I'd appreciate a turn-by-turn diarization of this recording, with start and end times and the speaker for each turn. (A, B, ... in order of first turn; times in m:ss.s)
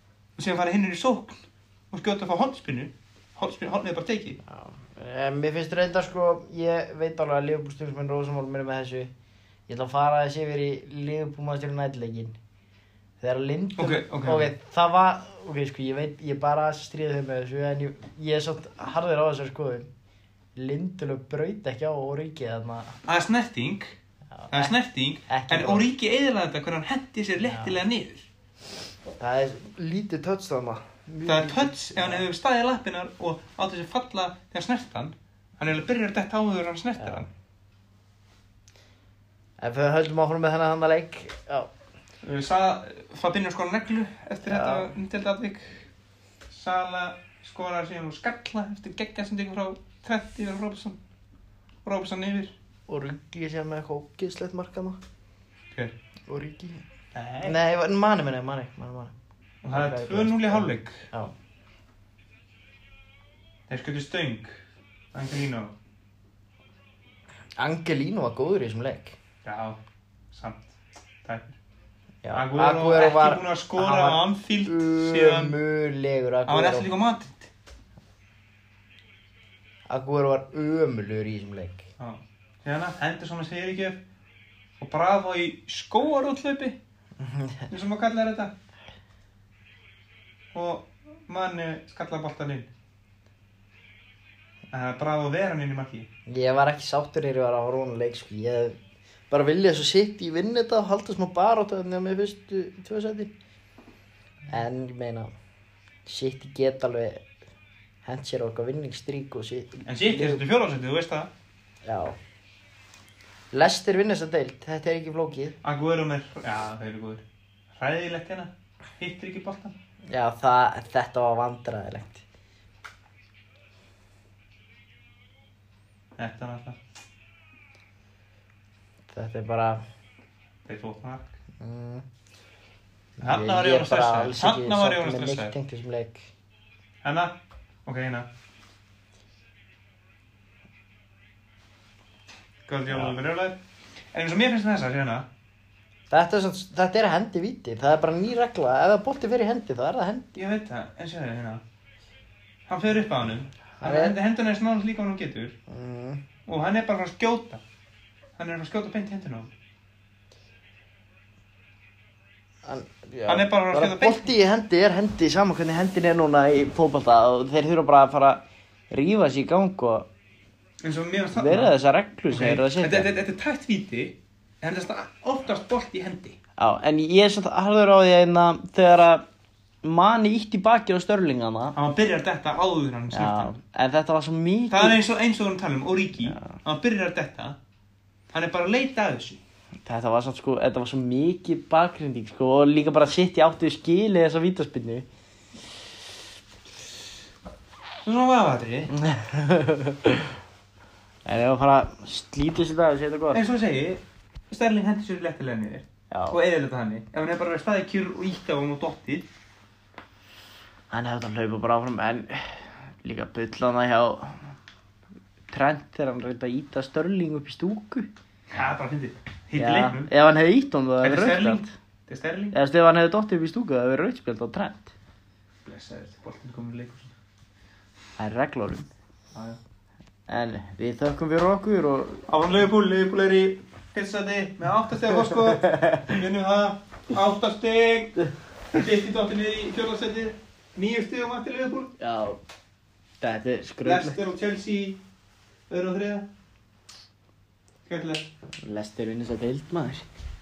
0:00.4-0:04.4 A
0:04.4-0:09.1 B
0:09.7-0:12.4 B
0:13.2-0:19.9 B
0:13.8-0:14.5 A
0:20.6-0:23.0 B
0:23.0-0:24.0 A
0:24.3-0:24.7 B
0:24.5-0:28.3 A
0:25.3-0:25.9 B
0:27.4-0:27.8 B
0:29.2-0:32.2 B
0:31.2-0:37.3 A
0:37.0-0:37.3 B
0:39.6-0:41.7 B
0:42.2-0:45.9 A
0:44.4-0:44.9 B
0:46.5-0:51.0 A
0:51.8-0:52.5 A
0:52.9-0:55.0 B
0:56.3-0:56.8 B
0:57.1-0:57.6 A
0:57.4-1:01.3 B
0:59.6-1:01.1 A
1:03.7-1:04.6 A
1:05.1-1:05.7 A
1:07.6-1:09.2 B
1:09.4-1:09.8 A
1:10.3-1:11.6 A
1:12.2-1:16.9 B
1:12.3-1:15.6 A
1:16.4-1:17.5 A
1:19.9-1:21.9 B
1:22.0-1:24.0 A
1:24.8-1:26.8 A
1:27.2-1:27.7 B
1:27.7-1:28.5 A
1:30.5-1:32.7 A
1:34.7-1:36.1 A
1:36.3-1:38.8 B
1:39.3-1:43.3 B
1:44.5-1:45.3 B
1:46.0-1:47.3 B
1:48.0-1:50.4 B
1:49.8-1:51.3 A
1:51.8-1:52.2 B
1:53.5-1:55.6 B
1:55.6-1:57.2 A
1:57.7-1:59.7 A
2:00.1-2:02.2 B
2:06.2-2:06.8 A
2:09.1-2:09.8 B
2:10.6-2:11.4 A
2:11.6-2:12.0 B
2:13.2-2:16.3 B
2:13.2-2:15.5 A
2:17.0-2:18.3 A
2:22.7-2:23.6 A
2:22.9-2:23.2 B
2:24.1-2:25.2 A
2:26.1-2:30.3 B
2:30.3-2:31.6 A
2:32.7-2:35.6 A
2:33.8-2:34.2 B
2:35.7-2:36.2 B
2:36.5-2:37.6 A
2:38.4-2:39.5 A
2:42.6-2:50.1 B
2:43.3-2:44.3 A
2:50.8-2:51.7 A
2:51.3-2:53.1 B
2:52.3-2:56.4 A
2:56.6-2:59.3 B
2:59.8-3:01.8 B
3:01.7-3:03.5 A
3:03.1-3:05.0 B
3:04.7-3:07.6 A
3:08.3-3:09.4 A
3:09.8-3:15.1 B
3:18.0-3:18.9 A
3:18.9-3:20.3 B
3:21.2-3:23.4 B
3:23.3-3:29.3 A
3:26.1-3:26.4 B
3:30.9-3:34.5 B
3:35.5-3:38.1 B
3:38.5-3:40.1 A
3:39.6-3:41.7 B
3:41.0-3:42.6 A
3:42.5-3:44.9 B
3:45.6-3:47.1 A
3:48.2-3:48.9 B
3:49.3-3:49.6 A
3:50.3-3:52.2 B
3:52.3-4:01.9 A
3:55.4-3:56.2 B
4:02.0-4:02.4 B
4:03.2-4:04.2 B
4:03.8-4:05.0 A
4:05.7-4:06.3 A
4:07.8-4:08.3 A
4:08.6-4:10.0 B